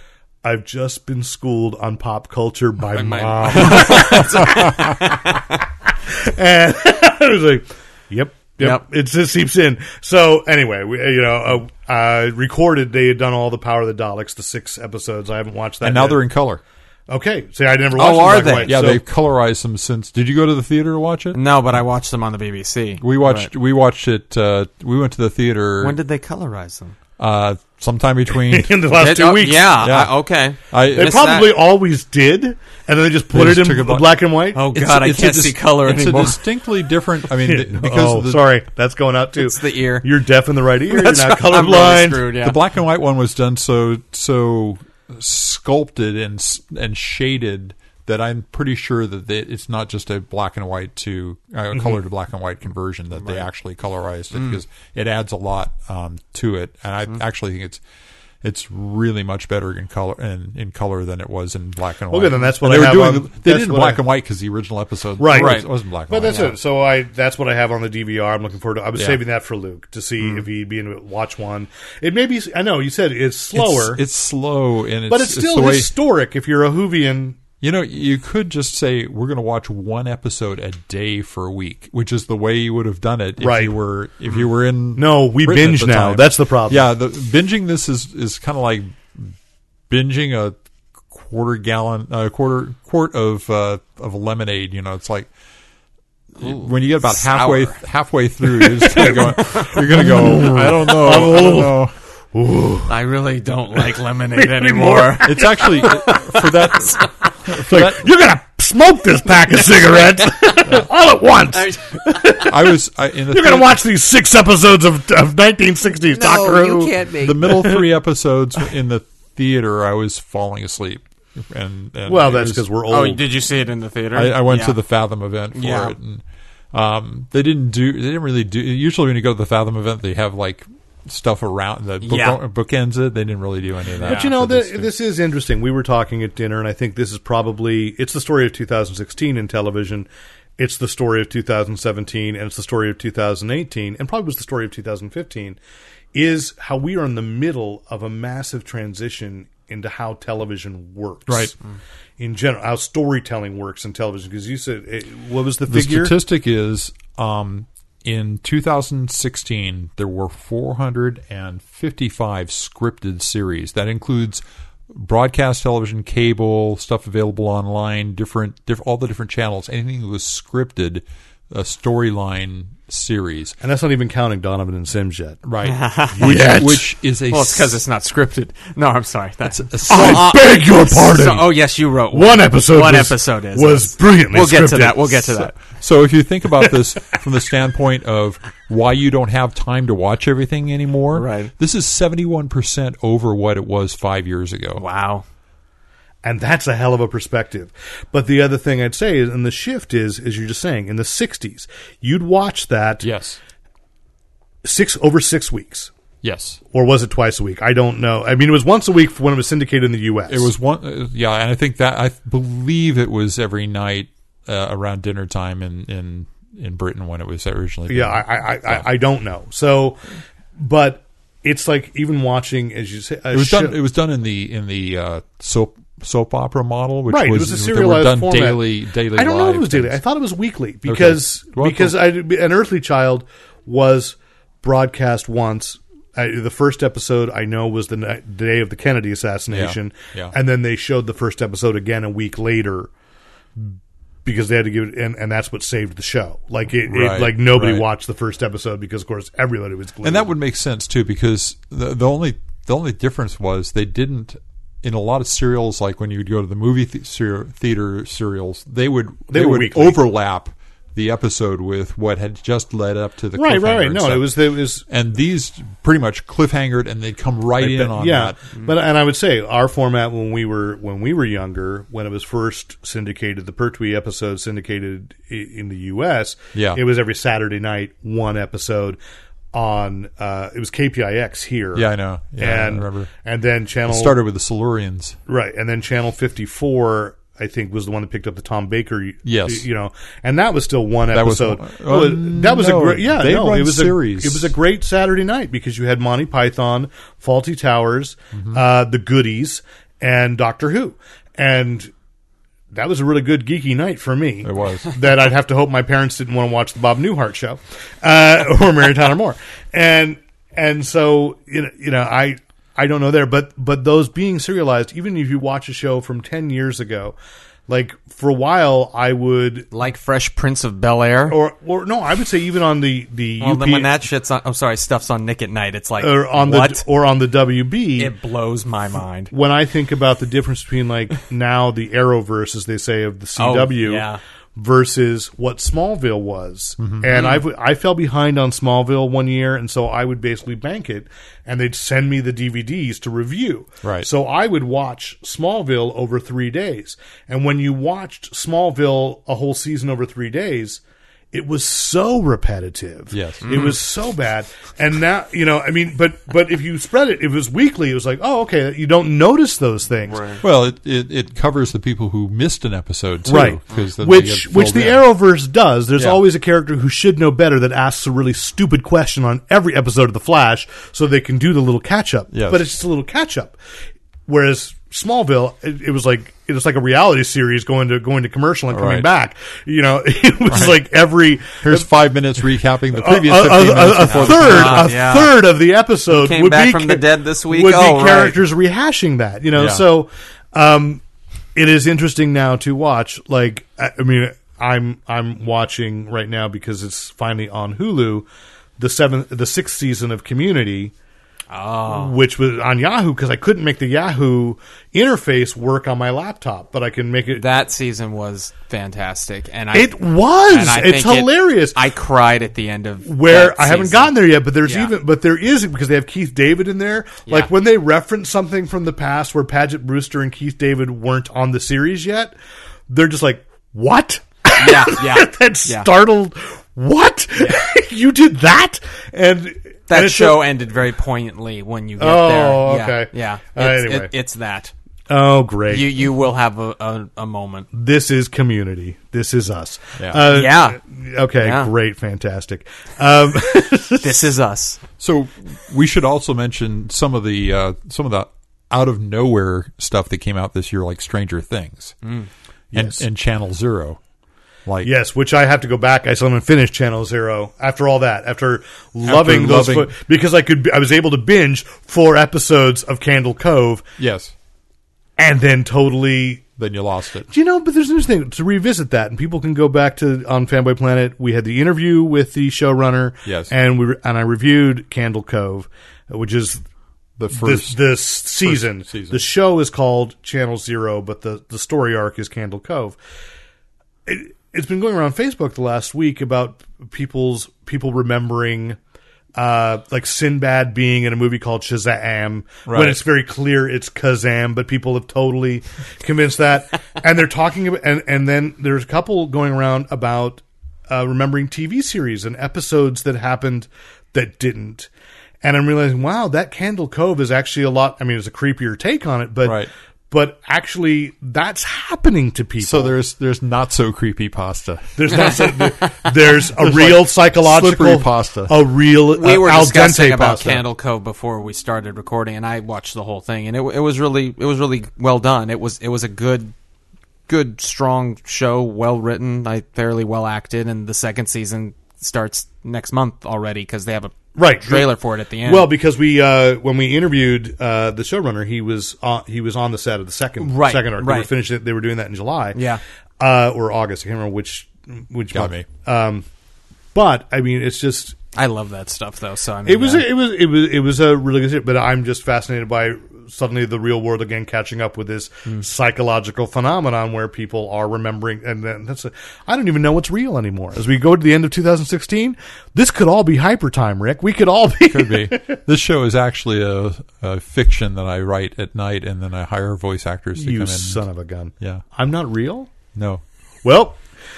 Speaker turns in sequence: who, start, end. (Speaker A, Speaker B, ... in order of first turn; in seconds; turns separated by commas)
Speaker A: 0.4-5.0, Speaker B: 3.0-5.5, Speaker C: 3.5-4.1, Speaker A: 6.1-16.2, Speaker C: 15.8-16.6, Speaker A: 17.1-19.0, Speaker B: 18.0-18.7, Speaker C: 18.5-21.4, Speaker B: 21.3-23.5, Speaker C: 23.0-26.0, Speaker B: 25.8-26.9, Speaker C: 27.2-28.8, Speaker A: 28.3-29.8, Speaker B: 28.9-31.5, Speaker C: 29.8-30.1, Speaker C: 30.7-31.3, Speaker A: 30.9-34.6, Speaker C: 33.3-34.2, Speaker B: 34.5-36.4, Speaker C: 34.8-38.4, Speaker A: 37.4-42.3, Speaker B: 39.4-40.1, Speaker B: 40.9-42.6, Speaker C: 42.4-57.8, Speaker C: 58.4-66.5, Speaker A: 62.1-64.0, Speaker A: 65.2-74.0, Speaker B: 65.3-65.7, Speaker C: 73.5-75.9, Speaker A: 75.1-77.4, Speaker C: 77.6-89.3, Speaker A: 83.4-83.7, Speaker A: 85.0-86.8, Speaker C: 89.9-90.5, Speaker C: 91.1-95.3, Speaker B: 96.4-97.8, Speaker C: 96.4-101.9, Speaker A: 98.6-101.8, Speaker A: 102.3-102.9, Speaker B: 102.9-106.5, Speaker A: 104.4-106.4, Speaker C: 105.2-108.0, Speaker A: 107.5-112.8, Speaker B: 111.5-112.2, Speaker C: 112.4-113.8, Speaker A: 113.3-117.9, Speaker B: 116.2-117.4, Speaker C: 117.2-122.6, Speaker A: 122.1-123.2, Speaker B: 122.9-124.8, Speaker C: 124.2-126.2, Speaker B: 125.5-125.9, Speaker C: 126.7-134.9, Speaker B: 132.0-132.4, Speaker B: 134.0-134.3, Speaker A: 134.0-140.1, Speaker A: 140.6-145.6, Speaker A: 146.1-151.6, Speaker C: 151.3-151.5, Speaker A: 152.2-156.2, Speaker C: 155.7-173.6, Speaker A: 173.6-175.4, Speaker C: 175.4-177.8, Speaker B: 175.6-176.4, Speaker A: 176.2-176.9, Speaker B: 177.3-185.6, Speaker C: 179.5-180.4, Speaker A: 179.9-181.5, Speaker A: 182.1-185.3, Speaker C: 185.6-194.8, Speaker B: 191.1-191.5, Speaker B: 194.8-195.2, Speaker A: 196.2-203.1, Speaker C: 203.0-203.4, Speaker A: 204.6-205.9, Speaker C: 206.2-206.6, Speaker A: 206.7-210.5, Speaker C: 210.3-218.9, Speaker A: 217.9-220.0, Speaker A: 220.6-223.8, Speaker C: 223.3-230.0, Speaker A: 227.1-242.9, Speaker C: 230.9-232.0, Speaker C: 239.5-240.3, Speaker A: 243.6-250.3, Speaker C: 246.9-247.9, Speaker C: 250.0-268.5, Speaker A: 259.3-260.0, Speaker A: 263.4-264.8, Speaker A: 267.6-279.0, Speaker C: 276.5-276.8, Speaker A: 279.5-281.9, Speaker C: 281.8-283.1, Speaker A: 282.4-284.2, Speaker C: 283.9-285.2, Speaker A: 285.3-301.9, Speaker C: 289.2-289.7, Speaker C: 291.1-294.5, Speaker C: 298.4-298.6, Speaker A: 302.7-317.2, Speaker C: 304.4-304.9, Speaker A: 317.7-319.7, Speaker B: 319.7-321.4, Speaker A: 321.3-323.9, Speaker B: 323.4-326.8, Speaker A: 326.0-328.1, Speaker B: 328.0-329.3, Speaker A: 329.3-350.8, Speaker B: 333.4-334.2, Speaker C: 336.8-337.1, Speaker B: 337.1-337.4, Speaker C: 343.8-344.1, Speaker A: 351.3-360.4, Speaker C: 353.1-353.7, Speaker B: 353.4-353.8, Speaker B: 360.1-360.4, Speaker C: 360.4-365.1, Speaker A: 363.3-373.6, Speaker C: 372.3-372.6, Speaker A: 374.3-381.9, Speaker C: 378.7-379.1, Speaker C: 380.5-380.8, Speaker C: 381.6-384.9, Speaker A: 382.9-391.0, Speaker B: 384.0-385.4, Speaker B: 386.1-388.4, Speaker C: 389.6-389.8, Speaker A: 391.6-398.3, Speaker A: 398.8-400.9, Speaker B: 401.5-402.2, Speaker A: 401.9-407.4, Speaker B: 407.3-409.9, Speaker A: 409.7-411.8, Speaker B: 410.5-414.9, Speaker A: 413.1-422.4, Speaker A: 422.9-430.6, Speaker B: 424.6-425.9, Speaker B: 427.4-427.7, Speaker B: 429.9-434.7, Speaker A: 432.0-434.1, Speaker A: 435.1-435.9, Speaker B: 435.7-437.7, Speaker A: 437.7-444.2, Speaker C: 440.0-440.2, Speaker B: 440.2-440.8, Speaker B: 441.4-441.7, Speaker B: 444.0-444.8, Speaker C: 445.0-452.0, Speaker B: 452.0-452.3, Speaker A: 452.7-453.0, Speaker C: 452.7-454.0, Speaker C: 454.7-454.9, Speaker A: 454.8-463.9, Speaker C: 459.1-459.9, Speaker C: 464.0-464.3, Speaker A: 465.2-466.5, Speaker C: 466.6-467.3, Speaker A: 467.3-476.6, Speaker C: 473.2-473.5, Speaker C: 477.2-477.8, Speaker A: 477.3-483.0, Speaker C: 478.4-479.2, Speaker A: 484.1-488.8, Speaker A: 489.4-504.9, Speaker C: 492.7-493.0, Speaker A: 505.4-513.0, Speaker C: 509.4-509.7, Speaker C: 512.6-515.0, Speaker A: 515.0-520.6, Speaker C: 516.6-518.6, Speaker B: 519.1-526.5, Speaker B: 527.3-535.7, Speaker A: 534.4-542.6, Speaker B: 540.4-541.3, Speaker B: 542.5-542.8, Speaker A: 543.2-546.3, Speaker C: 545.3-545.7, Speaker A: 546.9-548.2, Speaker B: 548.4-550.1, Speaker A: 549.6-565.6, Speaker C: 564.9-571.0, Speaker A: 570.4-572.7, Speaker C: 573.0-573.2, Speaker A: 573.6-574.0